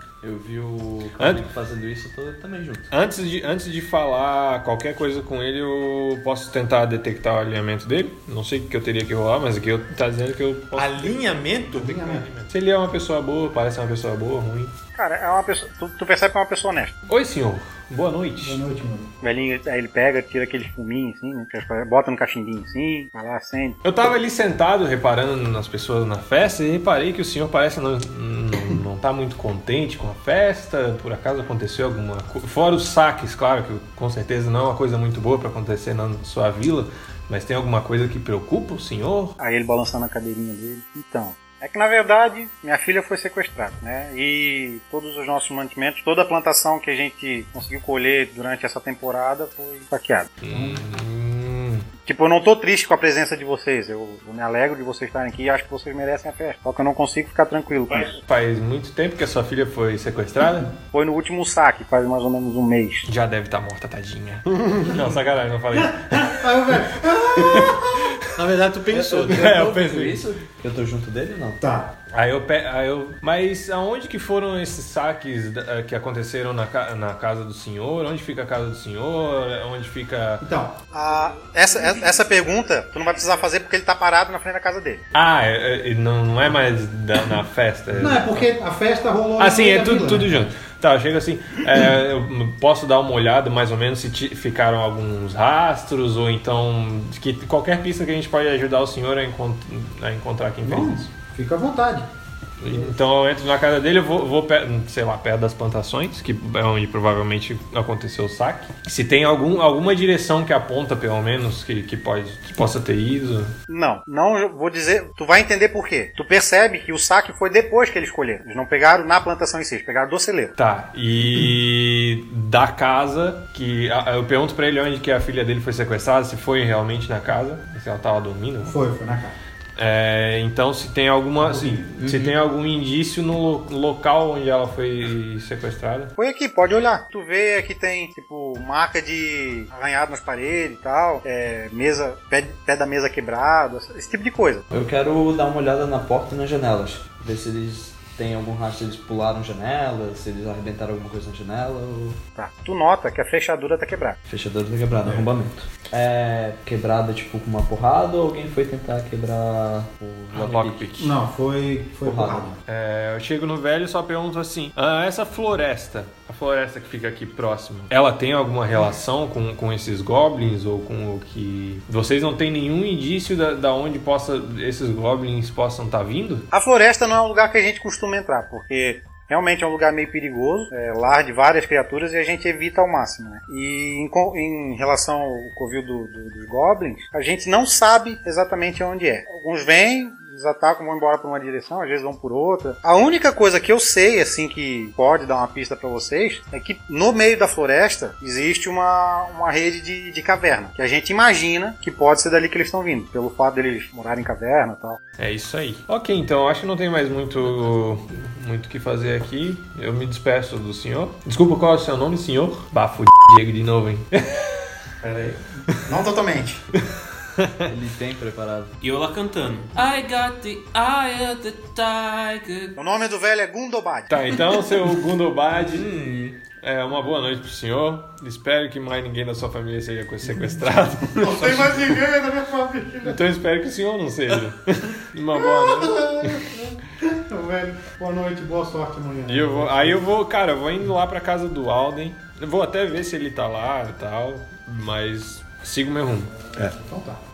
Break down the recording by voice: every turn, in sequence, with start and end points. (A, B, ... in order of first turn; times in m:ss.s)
0:00.2-0:02.9 A
0:01.2-0:01.4 B
0:02.9-0:14.7 B
0:10.7-0:12.2 C
0:11.7-0:12.3 D
0:14.9-0:17.0 E
0:17.1-0:18.6 B
0:18.4-0:19.1 D
0:19.2-0:23.8 E
0:23.8-0:39.3 B
0:39.4-0:50.4 E
0:50.4-0:51.9 B
0:50.5-0:50.8 D
0:52.0-0:58.2 E
0:58.2-1:00.7 B
1:00.9-1:03.1 E
1:03.0-1:06.4 B
1:05.7-1:08.1 D
1:08.3-1:09.8 C
1:08.9-1:11.6 A
1:09.5-1:10.2 B
1:11.6-1:11.9 D
1:12.1-1:20.4 B
1:20.4-1:20.8 D
1:20.9-1:25.0 E
1:25.1-1:28.5 B
1:27.9-1:30.5 D
1:29.4-1:41.1 B
1:40.6-1:42.1 D
1:42.6-1:53.5 B
1:53.7-2:00.5 E
2:00.6-2:08.8 B
2:08.6-2:09.4 D
2:09.8-2:16.1 B
2:11.4-2:11.9 D
2:16.2-2:24.6 E
2:24.7-2:32.2 A
2:32.4-2:34.2 E
2:34.3-2:40.8 A
2:40.3-2:41.2 B
2:41.0-2:42.6 D
2:42.0-2:42.5 A
2:42.7-2:56.5 B
2:56.5-3:25.0 E
3:25.2-3:34.4 B
3:35.0-3:36.6 D
3:37.7-3:38.7 A
3:38.8-3:42.8 F
3:42.8-3:44.1 E
3:44.1-3:52.0 B
3:45.7-3:46.3 A
3:51.1-3:53.2 D
3:53.0-3:56.5 B
3:55.4-4:00.1 D
3:59.3-4:06.3 B
4:06.6-4:07.2 D